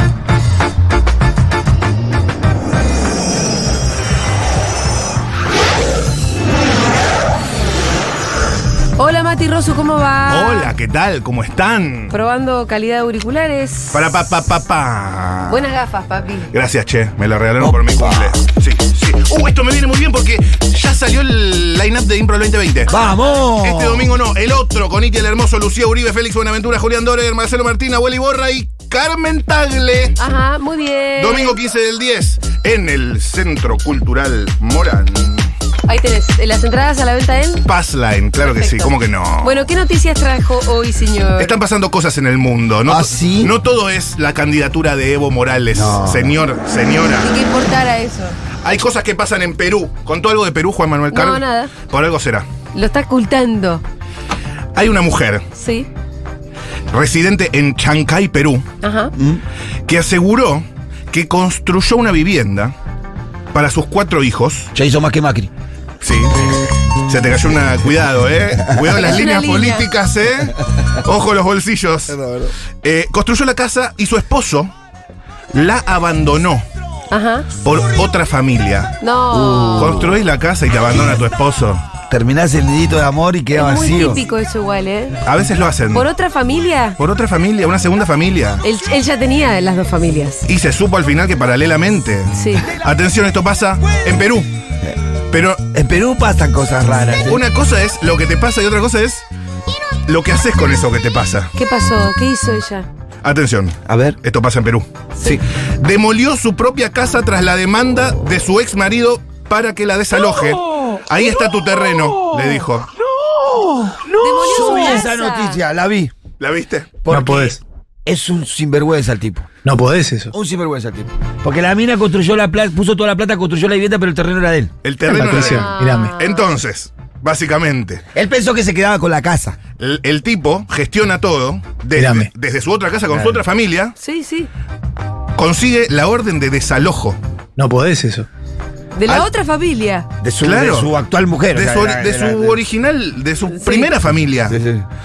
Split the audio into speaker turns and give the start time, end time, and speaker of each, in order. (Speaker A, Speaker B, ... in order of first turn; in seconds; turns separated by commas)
Speaker A: 9.0-10.7, Speaker B: 10.3-12.1, Speaker A: 12.1-14.1, Speaker B: 13.9-15.6, Speaker A: 15.5-16.5, Speaker B: 16.5-30.2, Speaker C: 17.6-18.4, Speaker C: 22.9-24.1, Speaker A: 22.9-23.2, Speaker A: 30.2-31.6, Speaker B: 31.2-35.5, Speaker A: 35.9-37.6, Speaker B: 37.6-39.6, Speaker A: 38.4-41.6, Speaker B: 41.4-47.3, Speaker C: 42.9-43.5, Speaker C: 45.7-46.4, Speaker A: 47.2-48.4, Speaker B: 48.6-52.5, Speaker A: 51.1-51.7, Speaker A: 52.7-53.8, Speaker B: 54.7-55.4, Speaker A: 55.5-55.9, Speaker B: 56.9-58.6, Speaker A: 58.8-59.1, Speaker C: 59.1-59.4, Speaker B: 59.9-62.7, Speaker B: 63.5-64.7, Speaker C: 64.7-65.5, Speaker B: 66.0-66.5, Speaker B: 67.0-72.1, Speaker A: 68.9-69.9, Speaker C: 72.1-72.5, Speaker B: 72.8-74.7, Speaker B: 75.5-76.6, Speaker A: 77.1-77.5, Speaker B: 77.6-78.9, Speaker A: 79.0-80.0, Speaker C: 79.3-80.2, Speaker B: 79.8-81.8, Speaker C: 82.1-84.2, Speaker A: 83.5-85.2, Speaker B: 85.2-86.1, Speaker A: 85.9-87.0, Speaker B: 87.0-88.6, Speaker A: 88.6-90.5, Speaker B: 90.5-94.5, Speaker A: 92.3-92.7, Speaker B: 95.3-95.6, Speaker C: 95.7-97.4, Speaker B: 97.2-99.2, Speaker B: 100.0-101.5, Speaker A: 101.5-102.9, Speaker B: 103.2-112.9, Speaker C: 103.9-104.2, Speaker C: 113.2-116.1, Speaker A: 114.2-115.6, Speaker B: 116.4-117.0, Speaker C: 117.0-119.5, Speaker D: 117.1-117.6, Speaker D: 119.6-120.3, Speaker C: 120.3-124.7, Speaker B: 124.8-128.0, Speaker D: 125.1-126.1, Speaker A: 125.2-126.5, Speaker C: 128.1-129.6, Speaker B: 129.8-133.9, Speaker D: 131.9-132.3, Speaker C: 133.1-133.4, Speaker A: 134.0-134.5, Speaker B: 135.3-137.2, Speaker D: 137.6-138.3, Speaker A: 138.9-140.1, Speaker C: 140.2-142.6, Speaker B: 140.4-140.9, Speaker B: 141.5-144.6, Speaker A: 143.5-143.9, Speaker C: 144.5-144.8